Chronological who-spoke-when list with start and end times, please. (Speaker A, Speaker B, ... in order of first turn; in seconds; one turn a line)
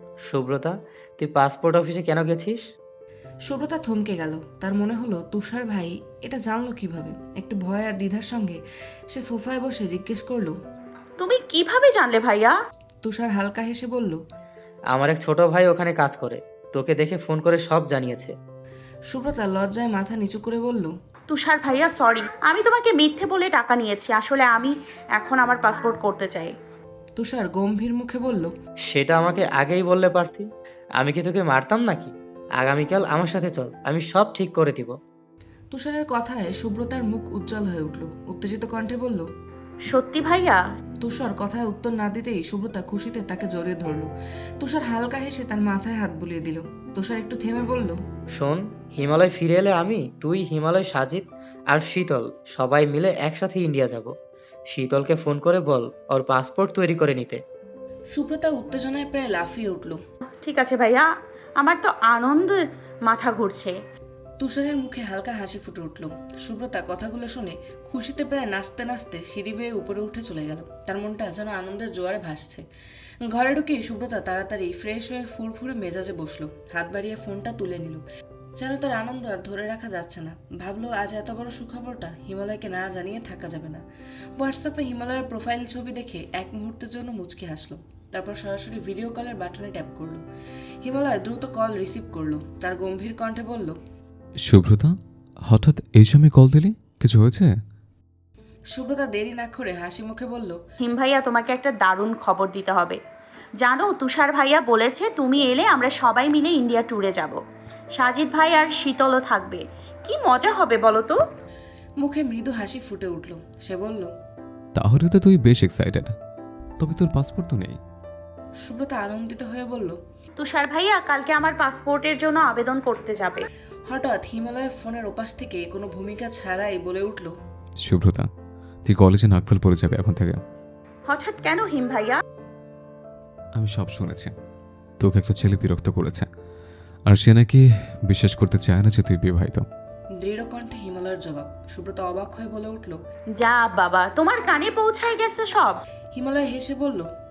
Speaker A: 0.3-2.6
Speaker B: 3.5-8.6
Speaker B: 9.1-10.5
Speaker C: 11.2-12.6
Speaker B: 13.0-14.2
Speaker A: 14.9-18.3
Speaker B: 19.1-20.9
Speaker C: 21.3-26.5
Speaker B: 27.1-28.5
Speaker A: 28.9-30.5
Speaker A: 31.0-34.9
Speaker B: 35.7-39.2
Speaker C: 39.9-40.6
Speaker B: 41.0-44.1
Speaker B: 44.6-48.0
Speaker A: 48.4-54.1
Speaker A: 54.7-57.4
Speaker B: 58.1-60.0
Speaker C: 60.4-61.1
Speaker C: 61.6-63.7
Speaker B: 64.4-72.6
Speaker B: 73.2-78.0
Speaker B: 78.6-83.8
Speaker B: 84.4-90.2
Speaker B: 90.8-93.8
Speaker D: 94.5-94.9
Speaker D: 95.5-97.5
Speaker B: 98.7-100.6
Speaker C: 100.8-103.0
Speaker C: 103.6-107.4
Speaker C: 108.0-111.2
Speaker B: 112.0-114.1
Speaker D: 114.7-116.1
Speaker D: 116.8-117.8
Speaker B: 118.6-120.0
Speaker C: 120.4-123.4
Speaker B: 123.9-127.3
Speaker D: 127.8-128.3
Speaker D: 128.8-130.4
Speaker C: 131.1-132.2
Speaker D: 133.6-134.3
Speaker D: 135.0-136.3
Speaker D: 137.1-139.6
Speaker B: 140.2-143.0
Speaker C: 143.4-145.8
Speaker B: 146.1-147.1